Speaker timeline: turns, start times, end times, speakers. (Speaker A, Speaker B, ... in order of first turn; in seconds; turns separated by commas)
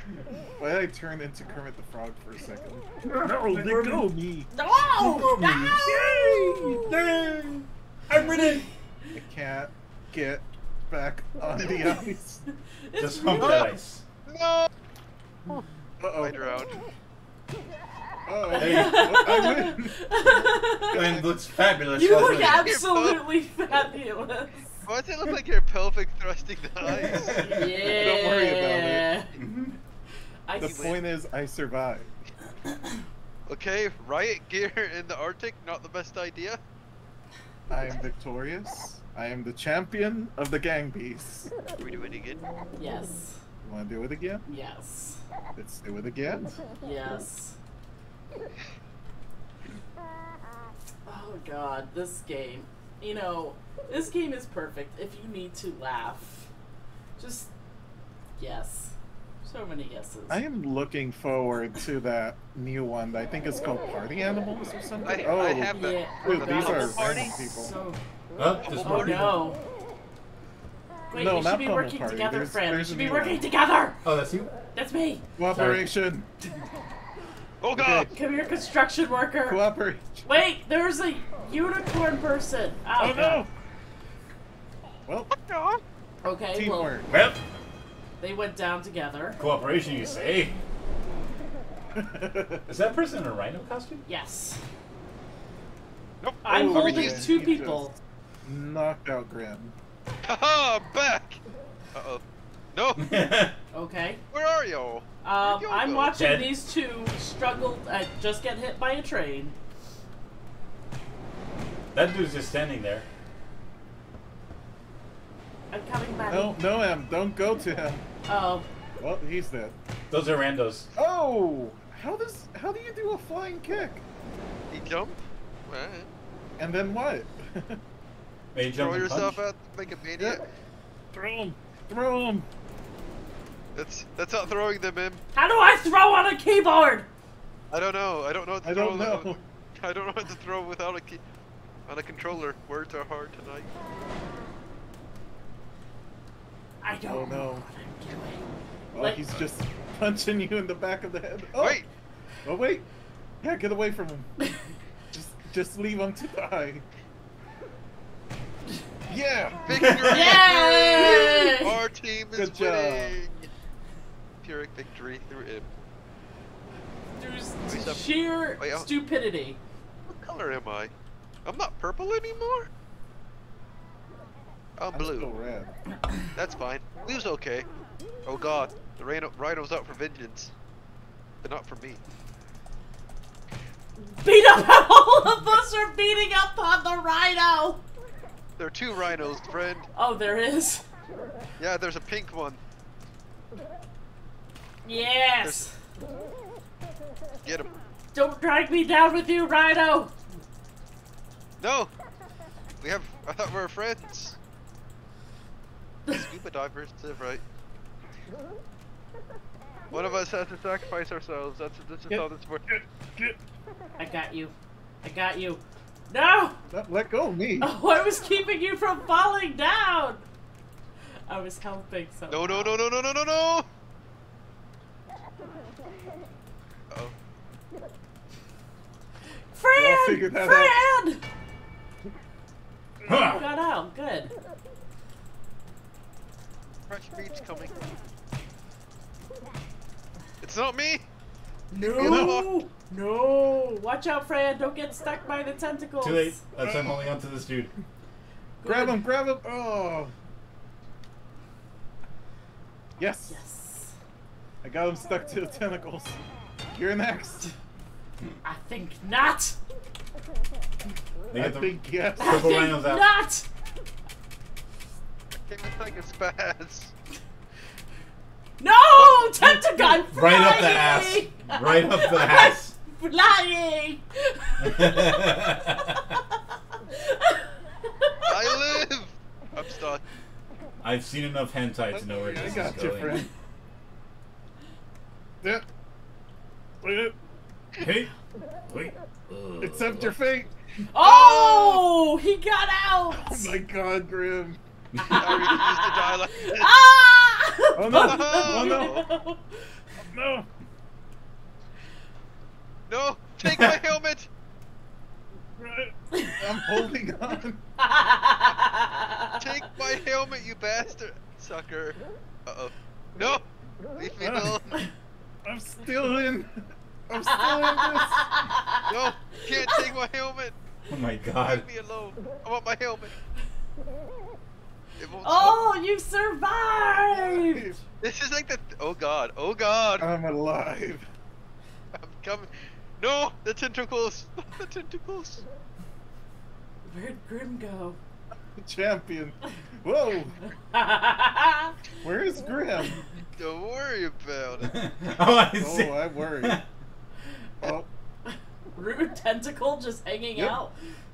Speaker A: 0.6-12.4, Speaker B: 4.5-6.9, Speaker C: 5.0-6.0, Speaker B: 8.2-8.6, Speaker B: 12.9-13.7, Speaker C: 13.0-14.0, Speaker D: 13.4-13.7, Speaker D: 14.3-14.7, Speaker A: 16.0-16.7, Speaker D: 16.2-16.8, Speaker A: 18.3-21.4, Speaker C: 18.6-19.3, Speaker B: 18.6-21.0, Speaker C: 20.9-22.8, Speaker B: 21.9-24.7, Speaker D: 22.4-23.2, Speaker D: 24.9-27.4, Speaker A: 27.0-29.1, Speaker C: 27.1-27.7, Speaker B: 27.4-29.4, Speaker C: 29.4-29.8, Speaker B: 30.5-30.8, Speaker A: 30.6-32.1, Speaker D: 30.6-31.0, Speaker D: 33.5-36.6, Speaker A: 37.7-41.5, Speaker D: 41.8-42.4, Speaker B: 42.8-43.4, Speaker A: 43.6-44.4, Speaker B: 44.5-45.2, Speaker A: 45.6-46.7, Speaker B: 46.8-47.6, Speaker B: 51.1-56.5, Speaker B: 57.2-57.5, Speaker B: 58.4-60.4, Speaker A: 60.3-67.8, Speaker D: 65.0-67.5, Speaker B: 65.7-68.0, Speaker C: 68.4-69.5, Speaker D: 68.6-69.3, Speaker B: 68.8-69.6, Speaker B: 71.1-74.0, Speaker A: 71.1-73.5, Speaker C: 74.0-74.5, Speaker B: 74.7-75.3, Speaker A: 75.4-76.3, Speaker C: 75.5-75.9, Speaker D: 77.6-78.1, Speaker A: 77.8-78.1, Speaker B: 78.1-79.7, Speaker A: 79.4-80.4, Speaker B: 80.2-83.5, Speaker A: 83.0-83.5, Speaker A: 85.1-85.3, Speaker D: 85.3-85.8, Speaker B: 86.2-87.0, Speaker A: 86.5-87.4, Speaker B: 88.2-89.4, Speaker C: 89.4-90.6, Speaker A: 92.0-92.7, Speaker C: 92.7-94.0, Speaker B: 94.1-94.6, Speaker D: 96.2-97.4, Speaker B: 96.5-98.0, Speaker A: 96.5-97.9, Speaker A: 98.5-99.8, Speaker D: 100.2-101.4, Speaker D: 101.9-102.2, Speaker D: 102.7-103.1, Speaker C: 103.0-103.6, Speaker B: 103.7-104.2, Speaker D: 104.3-106.1, Speaker B: 105.2-109.6, Speaker C: 106.1-106.5, Speaker C: 111.9-113.1, Speaker B: 115.7-116.6, Speaker A: 116.3-118.1, Speaker B: 118.3-118.7, Speaker A: 119.0-119.8, Speaker C: 120.1-120.9, Speaker A: 121.0-124.0, Speaker D: 124.7-126.1, Speaker A: 126.6-127.8, Speaker C: 128.5-129.4, Speaker D: 128.8-130.4, Speaker A: 130.2-130.4, Speaker A: 131.1-132.5, Speaker D: 133.8-135.2, Speaker B: 135.3-137.1, Speaker D: 137.7-141.2, Speaker A: 138.6-139.4, Speaker D: 141.9-143.7, Speaker B: 146.8-149.2, Speaker A: 147.1-147.7, Speaker A: 148.9-151.8, Speaker D: 151.6-151.9, Speaker A: 152.4-152.9, Speaker A: 153.4-154.5, Speaker A: 155.1-156.8, Speaker A: 159.1-160.0, Speaker D: 159.7-163.5, Speaker B: 160.1-161.7, Speaker A: 162.3-163.2, Speaker D: 164.4-165.7, Speaker B: 167.2-169.6, Speaker D: 167.7-168.9, Speaker D: 170.1-170.9, Speaker D: 171.5-172.7, Speaker D: 174.8-175.3, Speaker A: 174.9-175.8, Speaker D: 176.3-177.7, Speaker D: 178.3-180.5, Speaker D: 181.4-182.0, Speaker B: 184.0-187.8, Speaker D: 188.6-189.9, Speaker B: 189.9-190.8, Speaker D: 191.6-192.6, Speaker B: 194.8-195.8, Speaker D: 195.4-195.7, Speaker D: 197.4-197.7, Speaker B: 198.1-200.1, Speaker D: 201.6-201.9, Speaker D: 202.8-204.4, Speaker D: 206.1-207.4, Speaker D: 209.9-212.7, Speaker A: 212.1-213.4, Speaker B: 214.0-216.6, Speaker A: 216.7-217.7, Speaker B: 217.6-220.3, Speaker B: 221.3-222.8, Speaker D: 222.3-223.7, Speaker B: 229.5-231.2, Speaker A: 229.8-230.9, Speaker A: 233.1-233.3, Speaker C: 233.1-233.4, Speaker B: 233.2-234.3, Speaker D: 236.9-238.0, Speaker D: 240.4-241.0, Speaker B: 241.7-246.4, Speaker D: 241.8-242.5, Speaker A: 242.0-242.4, Speaker C: 246.0-247.7, Speaker A: 246.5-247.1, Speaker B: 248.6-249.0, Speaker A: 248.6-250.1, Speaker A: 253.0-253.4, Speaker B: 253.3-254.0, Speaker A: 254.6-256.2, Speaker A: 256.7-257.5, Speaker B: 258.4-259.6, Speaker C: 261.3-263.1, Speaker A: 261.3-262.6, Speaker B: 262.2-263.5, Speaker D: 265.5-266.9, Speaker B: 268.6-275.2, Speaker C: 270.1-272.8, Speaker C: 274.6-276.2, Speaker B: 276.9-278.5, Speaker D: 278.3-280.0, Speaker C: 280.8-283.2, Speaker A: 281.9-283.3, Speaker A: 286.8-287.1, Speaker C: 287.8-288.1, Speaker C: 288.7-290.2, Speaker A: 289.6-290.5, Speaker B: 290.9-293.6, Speaker D: 291.0-291.8, Speaker A: 293.1-294.6, Speaker C: 295.0-295.2, Speaker B: 295.0-299.7, Speaker D: 295.2-296.7, Speaker A: 297.8-299.0, Speaker D: 297.9-299.1, Speaker A: 300.1-300.5, Speaker D: 302.9-304.3, Speaker C: 303.4-303.8, Speaker A: 305.6-307.6, Speaker B: 306.1-306.8, Speaker B: 307.8-309.6, Speaker D: 309.4-313.4, Speaker D: 314.0-314.8, Speaker A: 314.2-314.6, Speaker A: 315.4-318.3, Speaker B: 317.3-318.9, Speaker D: 318.9-320.6, Speaker C: 320.9-321.7, Speaker D: 321.4-323.2, Speaker D: 325.0-325.7, Speaker B: 325.2-327.7, Speaker A: 326.9-327.8, Speaker D: 328.0-330.1, Speaker A: 330.0-331.1, Speaker D: 331.9-335.4, Speaker B: 336.9-338.0, Speaker A: 338.6-340.4, Speaker B: 340.4-341.8, Speaker A: 342.0-343.0, Speaker D: 343.4-344.7, Speaker C: 344.6-346.6, Speaker A: 345.6-346.6, Speaker A: 347.6-347.9, Speaker B: 348.3-350.8